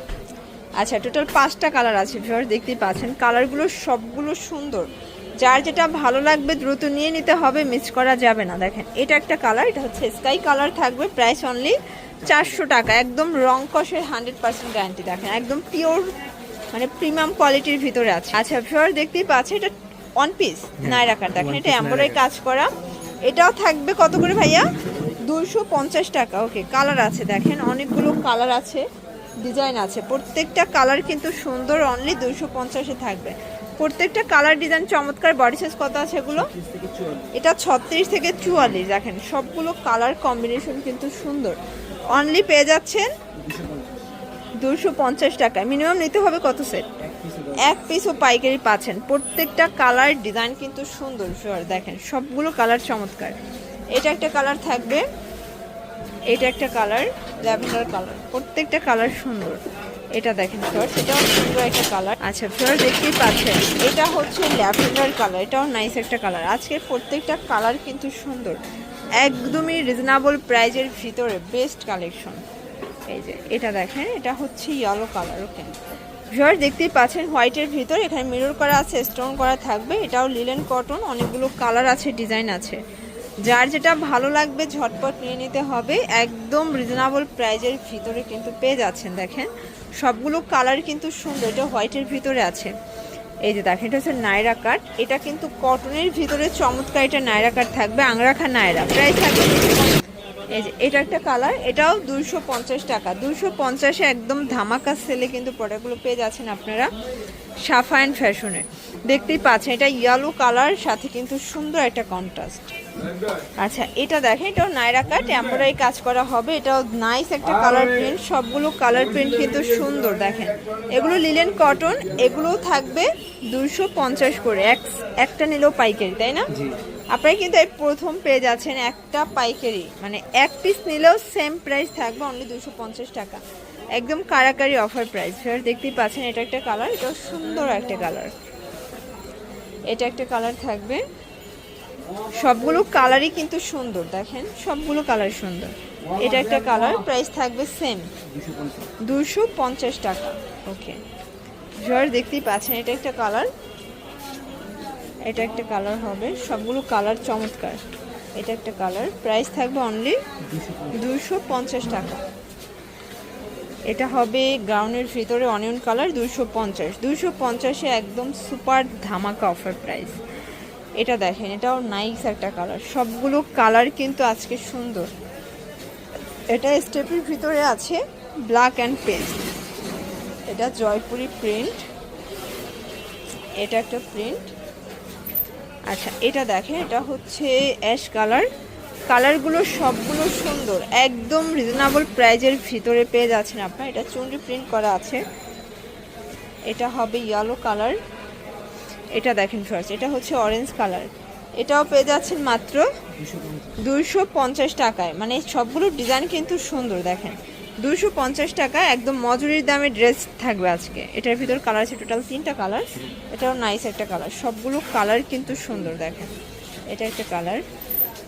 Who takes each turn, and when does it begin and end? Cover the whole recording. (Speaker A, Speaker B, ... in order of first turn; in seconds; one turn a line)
Speaker A: 0.8-16.1
Speaker A: 16.7-22.7
Speaker B: 20.9-22.2
Speaker A: 23.2-28.9
Speaker A: 29.4-36.5
Speaker B: 36.4-37.3
Speaker A: 37.3-41.6
Speaker A: 42.1-43.1
Speaker B: 43.3-44.0
Speaker A: 44.6-47.0
Speaker B: 47.0-47.7
Speaker A: 47.5-53.4
Speaker A: 53.9-55.0
Speaker A: 56.3-59.6
Speaker A: 60.1-68.6
Speaker A: 69.2-72.4
Speaker A: 73.1-75.8
Speaker A: 76.3-82.8
Speaker A: 83.4-92.7
Speaker A: 93.4-100.0
Speaker A: 100.5-106.9
Speaker A: 107.6-112.7
Speaker A: 113.6-126.5
Speaker A: 127.1-133.4
Speaker A: 133.9-138.3
Speaker A: 139.9-141.0
Speaker A: 142.4-148.1
Speaker B: 148.2-148.9
Speaker A: 149.0-151.0
Speaker A: 151.8-153.5
Speaker A: 155.3-157.8
Speaker A: 158.4-160.2
Speaker B: 160.5-161.0
Speaker A: 160.9-162.2
Speaker A: 163.9-170.2
Speaker A: 171.0-175.1
Speaker A: 176.5-179.4
Speaker A: 180.5-181.9
Speaker A: 183.6-184.5
Speaker A: 185.9-188.5
Speaker A: 189.1-195.2
Speaker A: 196.7-198.0
Speaker A: 199.1-202.9
Speaker B: 203.2-203.8
Speaker A: 203.8-216.4
Speaker A: 216.9-217.6